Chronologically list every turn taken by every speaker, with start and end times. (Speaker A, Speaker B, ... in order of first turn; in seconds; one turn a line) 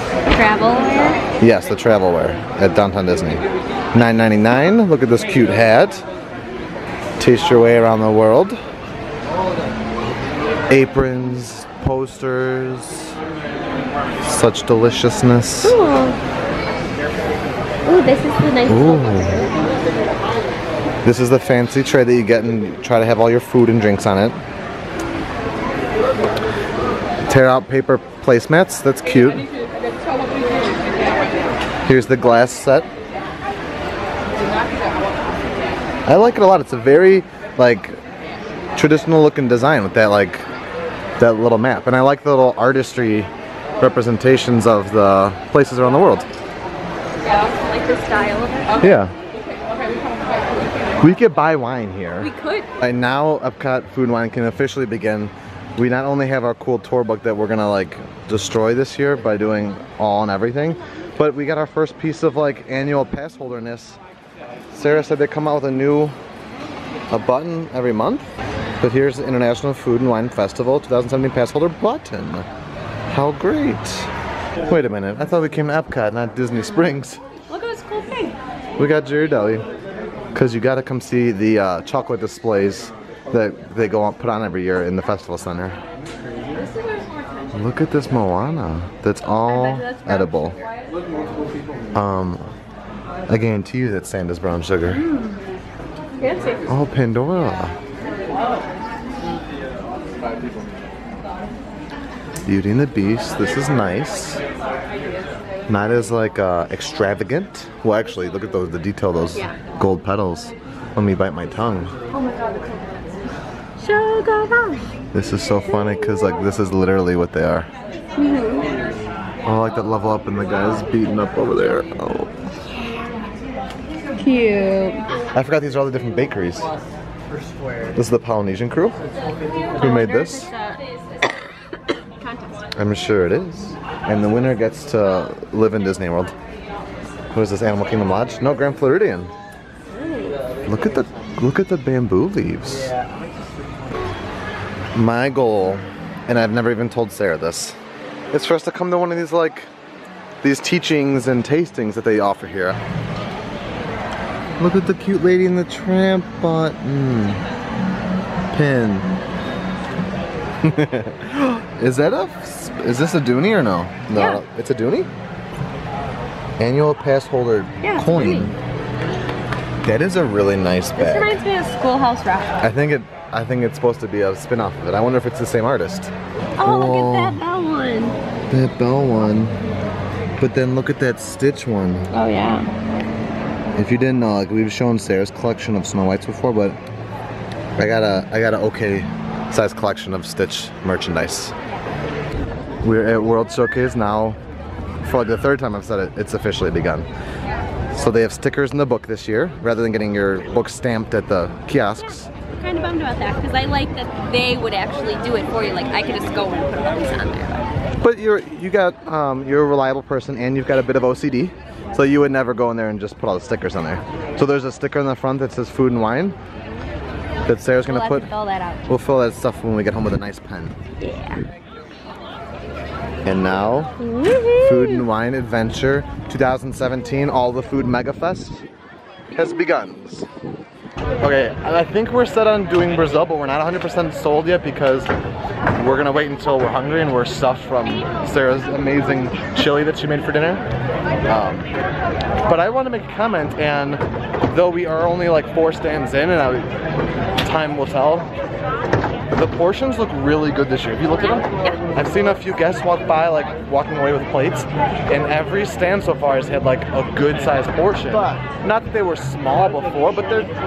Speaker A: 0.3-1.2
Speaker B: 1.4-3.4
Speaker B: 3.9-6.0
Speaker B: 7.2-8.6
Speaker B: 10.7-13.2
Speaker B: 14.2-15.8
Speaker A: 15.6-16.2
Speaker A: 17.9-19.6
Speaker B: 18.7-19.5
Speaker B: 21.0-24.4
Speaker B: 27.3-29.5
Speaker B: 31.9-32.9
Speaker B: 36.1-38.0
Speaker B: 38.8-40.4
Speaker B: 41.2-46.3
Speaker A: 47.2-49.0
Speaker B: 48.8-49.1
Speaker B: 51.0-64.0
Speaker A: 52.2-52.7
Speaker B: 64.7-66.2
Speaker B: 67.1-68.3
Speaker B: 68.8-72.5
Speaker B: 73.1-74.1
Speaker B: 74.7-77.2
Speaker A: 77.5-78.4
Speaker B: 78.8-79.7
Speaker B: 80.3-85.8
Speaker B: 87.5-90.6
Speaker A: 89.5-90.3
Speaker B: 92.0-92.5
Speaker B: 93.3-95.0
Speaker A: 94.9-95.4
Speaker A: 96.2-96.6
Speaker B: 96.7-97.8
Speaker B: 102.5-104.4
Speaker B: 105.7-111.9
Speaker A: 112.3-112.6
Speaker A: 113.8-114.9
Speaker B: 115.1-117.7
Speaker A: 118.2-118.7
Speaker B: 119.5-122.3
Speaker A: 124.2-125.0
Speaker B: 125.3-126.7
Speaker B: 127.9-128.9
Speaker A: 129.7-132.7
Speaker B: 129.8-130.5
Speaker B: 132.8-136.3
Speaker B: 137.3-139.3
Speaker A: 139.9-140.4
Speaker B: 140.7-142.9
Speaker B: 144.9-147.8
Speaker B: 148.3-149.7
Speaker B: 150.4-152.8
Speaker B: 154.6-157.4
Speaker B: 158.5-159.1
Speaker B: 160.6-165.1
Speaker A: 164.1-164.4
Speaker B: 166.6-168.6
Speaker A: 167.8-168.5
Speaker B: 169.8-171.3
Speaker A: 171.0-172.6
Speaker B: 172.6-176.1
Speaker A: 176.6-178.2
Speaker B: 176.6-177.4
Speaker B: 178.5-179.6
Speaker B: 180.4-182.1
Speaker A: 182.1-182.7
Speaker B: 183.8-186.8
Speaker B: 187.8-191.5
Speaker B: 192.8-194.4
Speaker B: 195.0-197.1
Speaker B: 197.9-202.3
Speaker A: 202.5-207.7
Speaker B: 208.0-216.4
Speaker B: 217.5-218.3
Speaker A: 217.9-218.8
Speaker B: 218.9-220.8
Speaker A: 221.0-221.4
Speaker B: 223.3-223.9
Speaker A: 224.0-225.1
Speaker B: 224.6-228.6
Speaker B: 229.3-230.3
Speaker B: 231.2-235.1
Speaker B: 235.8-240.6
Speaker B: 241.3-241.7
Speaker B: 242.4-246.7
Speaker B: 247.4-248.3
Speaker B: 249.3-260.5
Speaker A: 251.1-251.9